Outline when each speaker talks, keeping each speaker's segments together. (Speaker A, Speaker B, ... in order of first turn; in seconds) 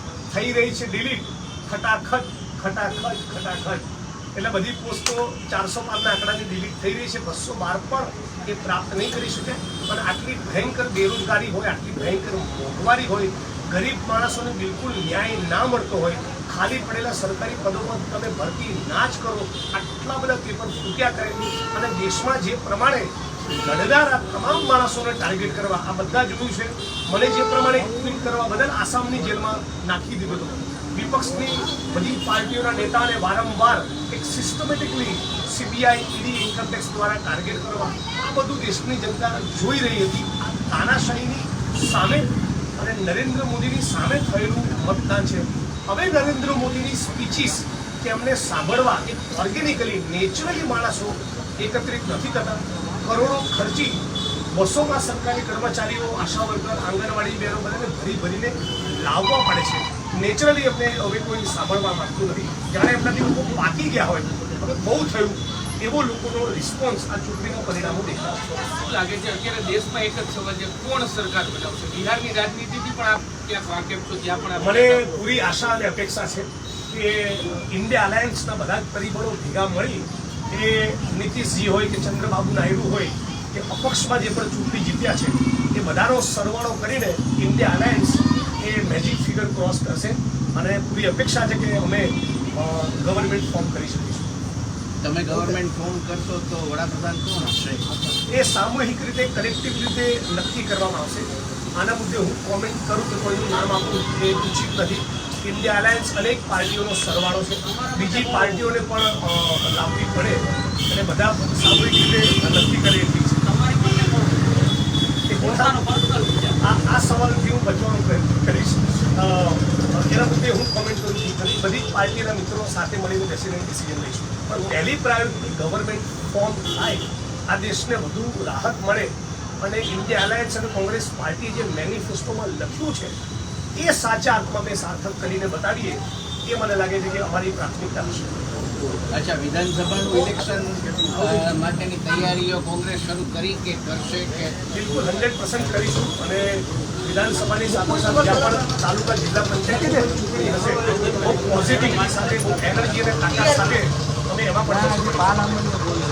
Speaker A: 0.3-54.0, 54.5-68.6, 74.6-94.3, 95.3-95.6, 98.3-113.5, 115.3-115.8, 116.6-133.1, 133.8-138.4, 144.7-155.6
Speaker B: 68.6-75.3, 107.6-108.7, 113.5-114.5, 115.6-116.6, 150.9-153.2
Speaker C: 95.0-97.9, 139.1-144.6